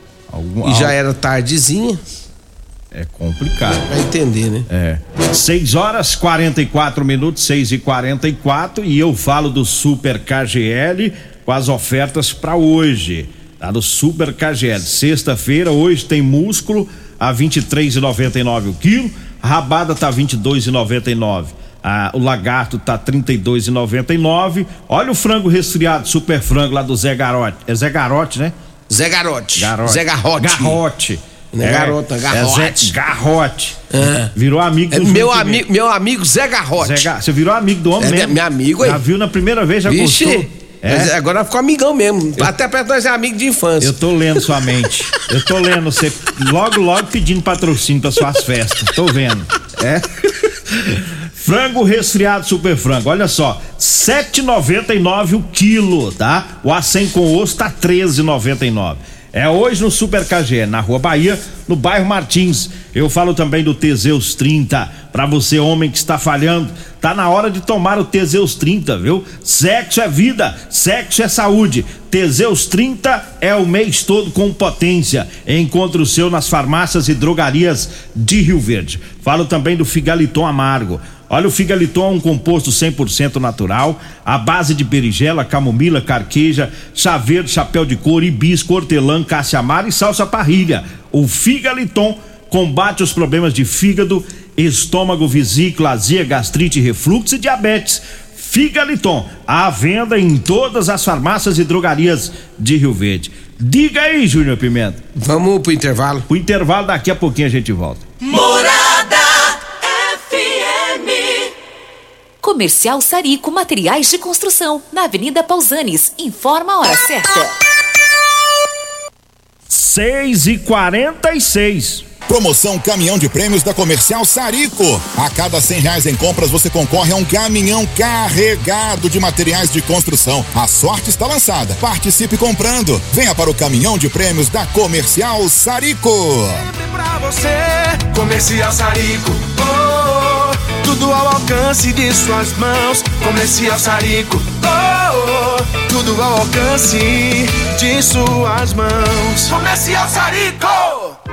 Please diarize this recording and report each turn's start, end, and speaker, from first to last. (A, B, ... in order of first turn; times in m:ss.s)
0:00.3-0:00.9 A
0:00.6-0:02.0 B
0:02.9-0:03.9 A
0:03.9-0:04.7 B
0:04.7-0:28.5 A
0:28.9-0:30.8 B
0:29.6-0:35.6 A
0:31.5-0:32.9 B
0:33.9-0:34.3 B
0:34.9-0:37.1 B
0:36.8-0:41.1 A
0:38.0-0:39.0 B
0:39.9-0:44.0 B
0:43.8-1:45.0 A
1:45.2-1:46.2 B
1:46.3-1:48.0 A
1:48.2-1:51.5 C
1:52.4-1:57.5 C
1:59.7-2:02.1 A
2:02.2-2:16.6 D
2:16.6-2:31.1 E